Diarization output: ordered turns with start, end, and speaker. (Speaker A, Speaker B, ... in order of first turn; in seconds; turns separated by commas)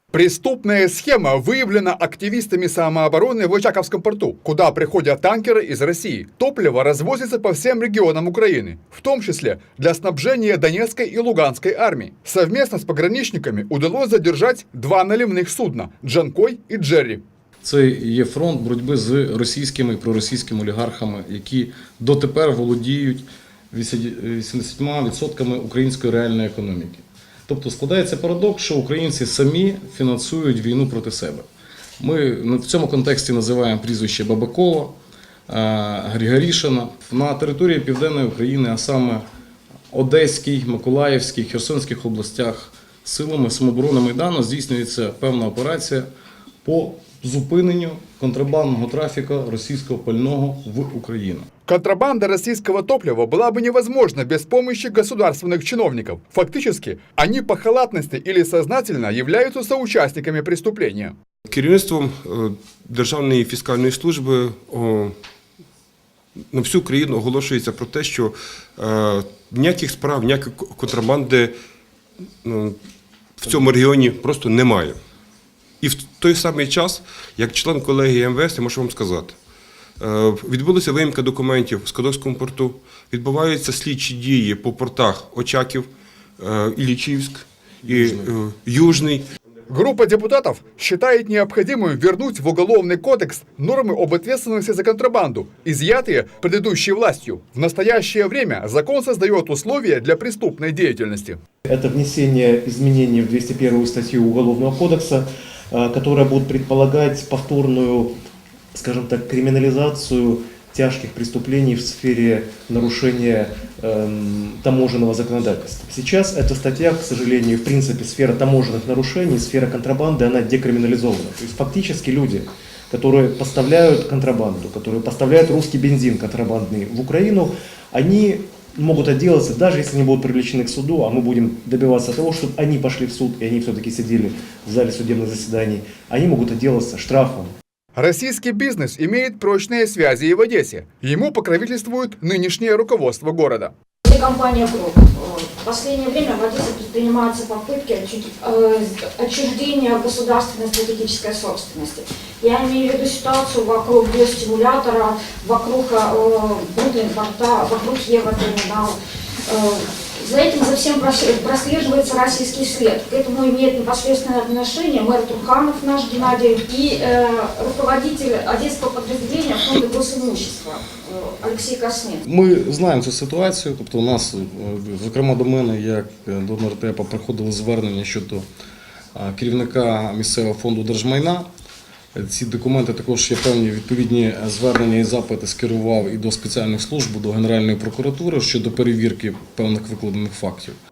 Speaker A: 0.1-17.2, Speaker B: 17.6-31.4, Speaker B: 32.0-35.0, Speaker B: 35.5-39.2, Speaker B: 39.9-46.0, Speaker B: 46.6-51.5, Speaker A: 51.7-61.1, Speaker C: 61.5-65.1, Speaker C: 66.5-71.5, Speaker C: 72.4-72.8, Speaker C: 73.4-75.0, Speaker C: 75.8-79.4, Speaker C: 80.0-89.2, Speaker A: 89.7-101.4, Speaker D: 101.7-108.1, Speaker D: 108.7-137.5, Speaker A: 137.9-143.7, Speaker E: 144.0-172.2, Speaker B: 172.2-178.4, Speaker B: 179.1-181.4, Speaker B: 182.1-190.7